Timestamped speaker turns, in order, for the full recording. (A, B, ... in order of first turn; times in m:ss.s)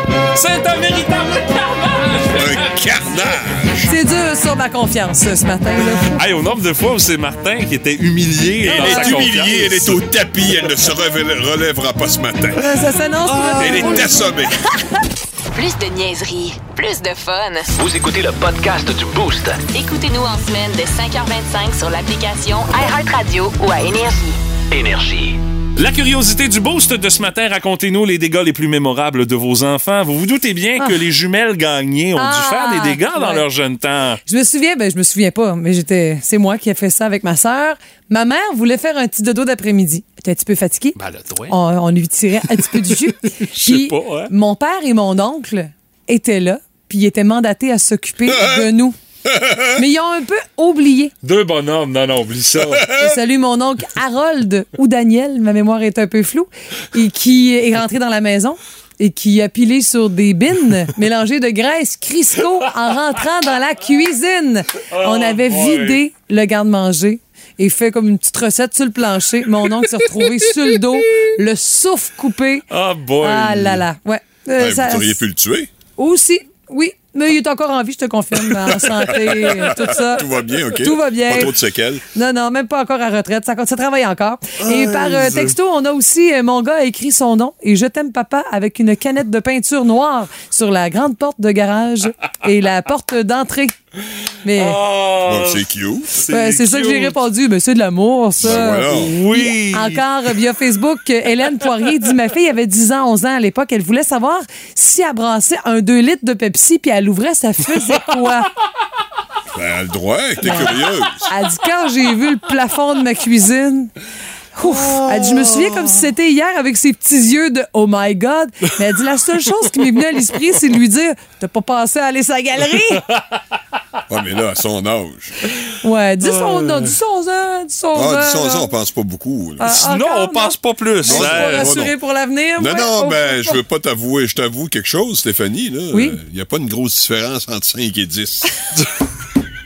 0:00.3-0:03.4 A
0:02.3-0:03.9 B
0:03.9-0:06.1 C
0:06.2-0:10.0 A
0:08.6-0:09.6 C
0:08.6-0:12.6 B
0:12.6-0:14.3 C
0:13.4-0:14.6 B
0:15.5-0:17.7 D
0:17.7-0:19.6 E
0:19.7-0:24.4 D
0:24.7-0:25.4 E
0:25.8-0:34.2 A
0:32.2-0:33.4 C
0:34.2-0:41.0 C
0:41.0-0:41.6 A
0:41.5-0:48.9 C
0:43.4-0:44.3 A
0:48.3-0:48.7 B
0:49.2-0:49.8 B
0:49.6-0:51.1 C
0:51.2-0:52.9 A
0:52.6-0:53.1 B
0:52.9-1:12.6 C
1:04.9-1:06.0 A
1:09.9-1:10.4 A
1:12.7-1:13.8 A
1:13.2-1:15.2 C
1:14.6-1:15.7 B
1:16.0-1:21.6 C
1:18.6-1:22.0 B
1:22.1-1:33.7 C
1:24.7-1:25.6 B
1:34.4-1:34.8 C
1:34.6-1:37.2 A
1:35.2-1:36.2 B
1:36.2-1:48.5 C
1:38.4-1:39.2 B
1:38.4-1:40.0 A
1:49.6-1:51.3 B
1:50.4-1:50.7 C
1:51.2-1:53.9 C
1:54.6-2:03.0 C
2:04.1-2:05.3 B
2:05.8-2:08.7 C
2:06.2-2:07.0 A
2:07.9-2:09.8 B
2:09.6-2:13.6 C
2:09.7-2:11.8 A
2:11.0-2:11.9 B
2:12.6-2:18.6 B
2:15.9-2:16.2 C